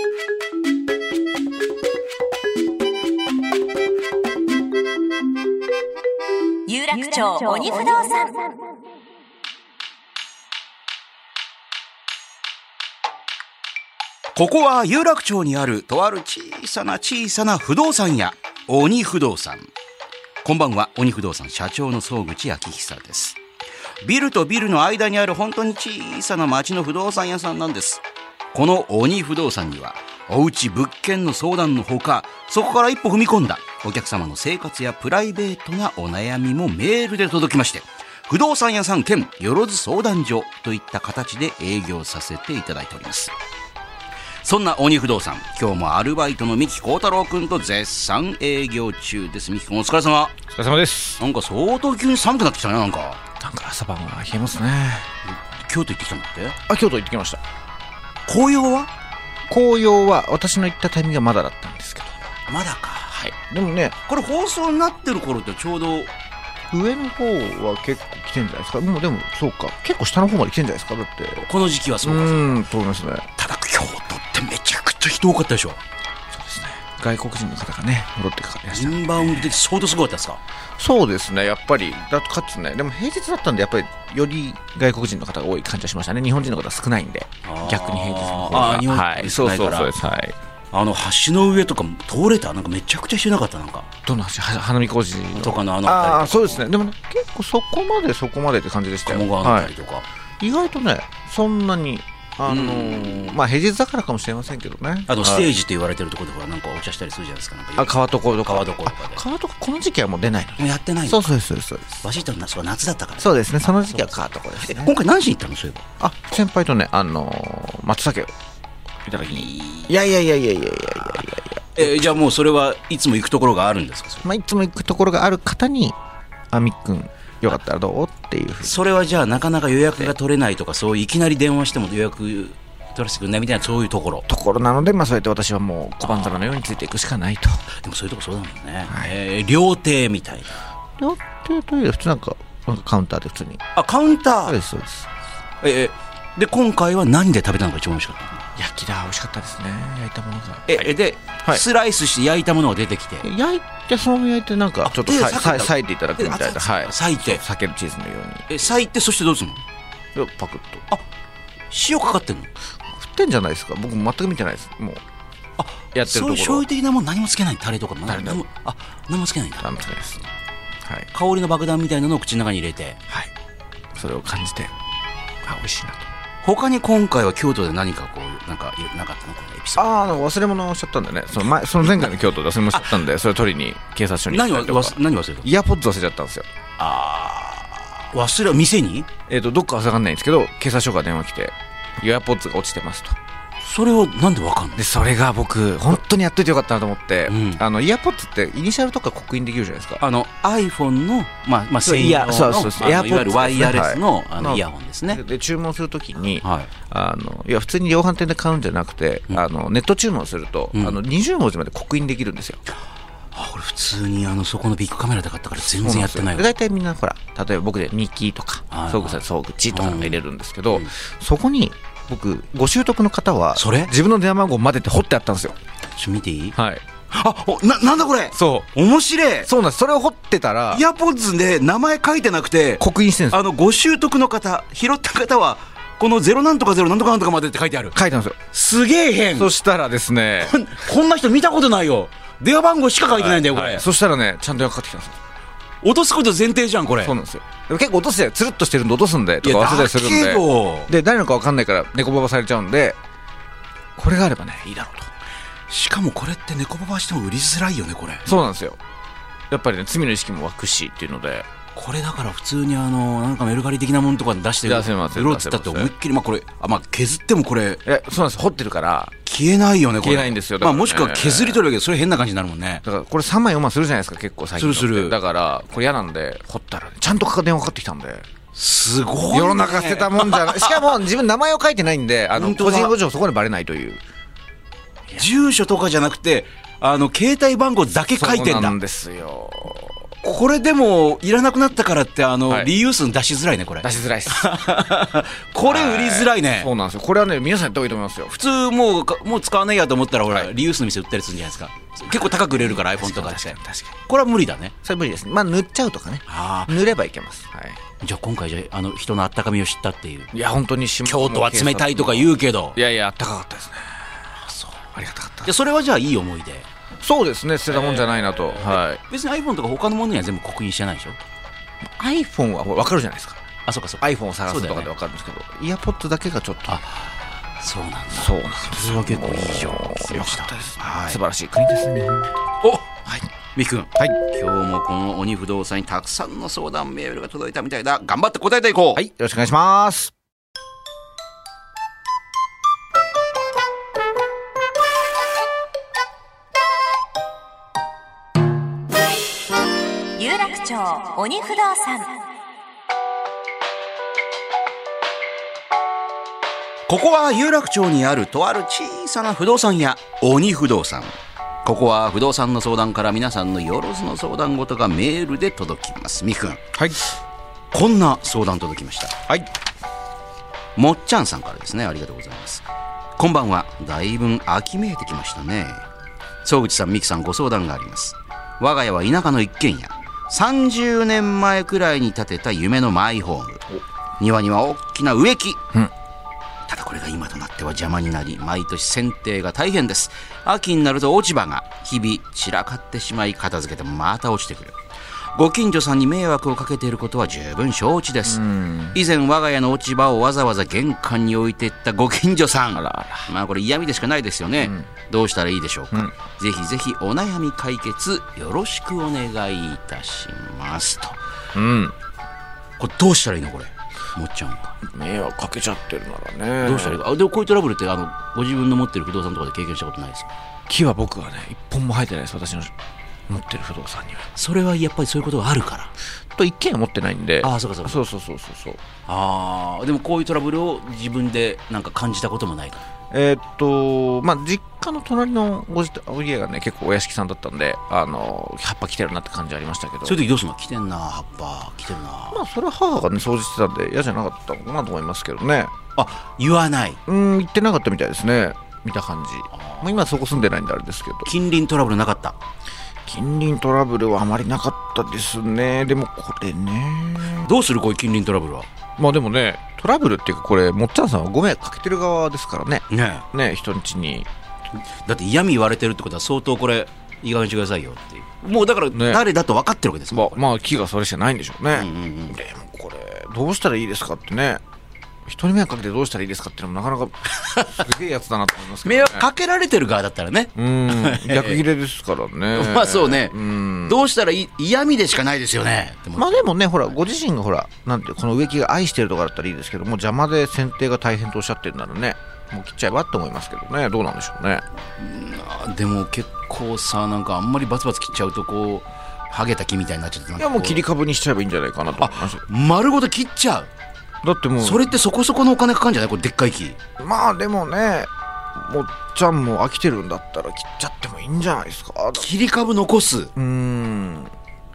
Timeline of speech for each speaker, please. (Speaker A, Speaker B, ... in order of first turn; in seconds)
Speaker A: 6.7-8.6, 350.1-352.2
Speaker B: 14.3-19.7, 20.4-23.4, 24.0-43.3, 44.4-50.4, 51.2-53.2, 55.3-56.6, 58.3-58.9, 62.5-63.3, 64.0-66.1, 71.4-72.5, 73.3-75.8, 78.7-80.4, 87.4-89.9, 90.7-93.9, 95.3-96.7, 99.0-100.0, 102.5-103.4, 105.1-109.2, 110.6-111.3, 112.0-115.9, 119.3-119.9, 121.7-124.2, 128.6-134.3, 136.1-136.3, 137.7-140.6, 143.7-144.6, 145.6-148.5, 150.7-153.3, 154.8-157.4, 158.5-159.6, 161.7-162.5, 165.6-169.7, 171.1-173.0, 176.4-179.9, 184.3-185.5, 186.8-189.1, 193.6-194.8, 197.3-197.6, 200.0-205.2, 206.4-206.7, 210.7-211.0, 213.3-216.5, 218.7-220.9, 223.6-223.9, 225.9-226.6, 227.1-229.5, 230.7-238.0, 238.5-239.5, 240.4-243.8, 245.8-247.1, 249.4-250.9, 255.7-258.3, 261.7-267.8, 269.2-272.8, 274.6-275.1, 278.5-280.9, 282.3-282.9, 285.1-288.8, 290.2-296.7, 298.3-304.7, 306.3-306.7, 308.0-310.3, 311.0-312.8, 315.4-316.7, 317.7-321.2, 323.6-324.9, 326.7-331.2, 332.6-332.9, 333.5-339.0, 356.9-366.7, 367.7-369.2, 370.8-372.6, 373.2-375.9, 376.4-383.7, 384.2-385.6, 386.7-394.8, 395.3-411.2, 412.8-414.8, 416.6-420.3, 424.3-425.9, 427.4-428.0, 429.1-432.8, 440.0-442.4, 445.9-447.0, 449.5-449.9, 451.2-452.4, 457.4-458.7, 462.9-463.2, 465.0-470.4, 471.7-472.4, 477.3-477.8, 478.8-481.6, 482.5-486.6, 495.0-500.8, 502.0-503.7, 504.6-506.8, 512.1-513.3
Speaker C: 50.5-51.2, 53.4-55.1, 56.7-57.4, 59.5-62.3, 63.2-64.0, 66.7-71.5, 72.0-73.3, 76.3-79.6, 80.8-90.3, 94.0-99.7, 100.4-105.5, 107.8-112.0, 113.2-114.9, 116.0-118.3, 119.0-122.1, 124.2-126.0, 126.5-128.8, 134.3-137.6, 138.9-139.2, 141.0-143.6, 144.4-145.1, 148.6-150.9, 153.2-158.7, 160.1-160.8, 162.9-165.0, 165.9-166.6, 168.1-168.4, 169.6-170.3, 173.9-174.7, 175.4-176.1, 179.8-186.5, 189.3-193.2, 194.8-200.0, 201.8-212.6, 215.6-225.6, 226.6-226.8, 228.3-228.7, 229.4-230.8, 232.8-233.4, 237.9-238.4, 239.3-240.5, 243.1-245.2, 247.0-253.0, 254.0-255.1, 258.2-258.8, 259.5-261.5, 264.6-265.9, 267.8-269.1, 270.0-271.6, 272.8-278.3, 279.3-284.0, 288.2-289.9, 293.8-294.5, 295.6-298.4, 302.1-304.0, 304.8-307.8, 310.3-315.5, 317.0-319.0, 321.8-323.4, 324.0-326.8, 328.1-332.3, 338.9-340.1, 398.2-399.0, 402.7-403.3, 404.6-404.9, 411.5-411.9, 414.8-417.0, 420.7-422.7, 423.3-424.3, 426.3-428.8, 433.1-440.2, 442.3-445.7, 447.1-451.3, 453.1-457.5, 459.0-464.3, 468.9-469.2, 470.1-474.6, 475.2-479.3, 480.6-484.0, 486.1-494.6, 500.4-502.4, 504.2-504.9, 507.0-512.3, 513.3-514.3